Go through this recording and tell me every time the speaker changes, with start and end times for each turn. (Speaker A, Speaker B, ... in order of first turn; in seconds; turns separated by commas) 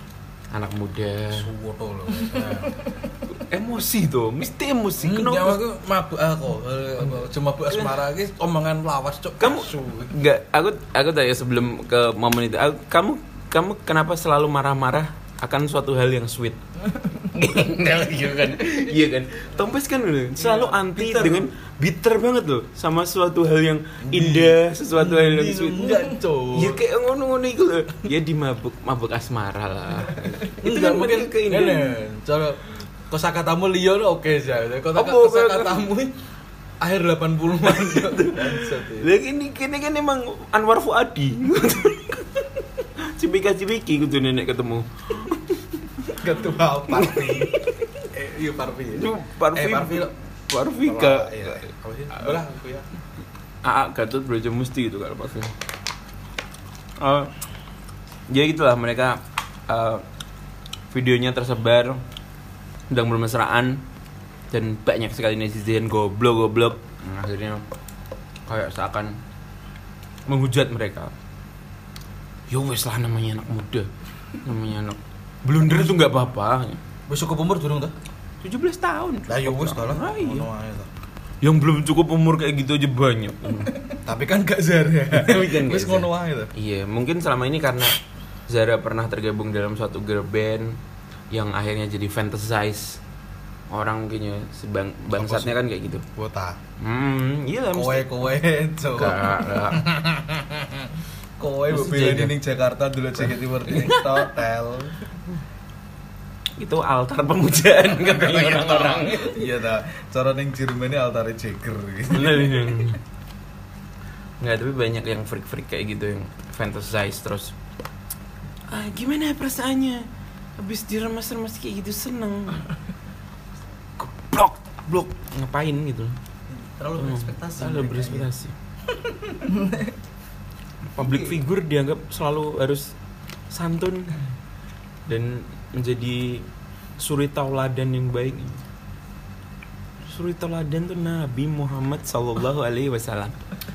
Speaker A: 0.5-1.5, Speaker B: 1.3-2.8, Speaker C: 2.7-3.2, Speaker A: 3.3-5.6, Speaker B: 5.0-10.1, Speaker A: 7.7-8.0, Speaker A: 9.4-16.6, Speaker C: 16.9-17.3, Speaker A: 17.2-26.0, Speaker C: 20.4-21.5, Speaker B: 24.0-26.8, Speaker A: 26.5-32.0, Speaker B: 30.6-36.2, Speaker A: 35.0-35.8, Speaker B: 36.8-39.1, Speaker A: 37.7-45.6, Speaker B: 46.1-50.1, Speaker A: 46.9-48.0, Speaker A: 48.9-51.6, Speaker B: 50.8-52.9, Speaker A: 53.6-55.5, Speaker A: 57.0-57.3, Speaker A: 58.3-60.0, Speaker A: 60.9-62.0, Speaker A: 62.9-63.8, Speaker A: 64.5-67.6, Speaker A: 68.5-69.2, Speaker A: 70.2-71.1, Speaker A: 72.5-76.8, Speaker B: 77.1-77.9, Speaker A: 78.4-80.5, Speaker B: 79.3-80.9, Speaker A: 81.4-83.7, Speaker B: 84.0-86.5, Speaker A: 85.1-90.8, Speaker A: 91.3-93.0, Speaker A: 93.7-96.0, Speaker B: 95.1-96.6, Speaker A: 96.8-98.0, Speaker B: 97.7-105.0, Speaker A: 99.0-99.8, Speaker A: 101.7-102.3, Speaker A: 103.7-104.2, Speaker A: 106.6-109.4, Speaker B: 107.9-112.7, Speaker A: 112.1-113.0, Speaker A: 114.4-117.5, Speaker A: 118.7-120.1, Speaker A: 120.6-122.7, Speaker A: 124.0-126.2, Speaker C: 126.5-128.3, Speaker A: 127.0-128.5, Speaker C: 128.9-129.9, Speaker A: 130.9-132.9, Speaker C: 131.0-131.4, Speaker A: 133.5-134.2, Speaker A: 135.1-136.4, Speaker A: 137.0-138.6, Speaker A: 140.0-143.4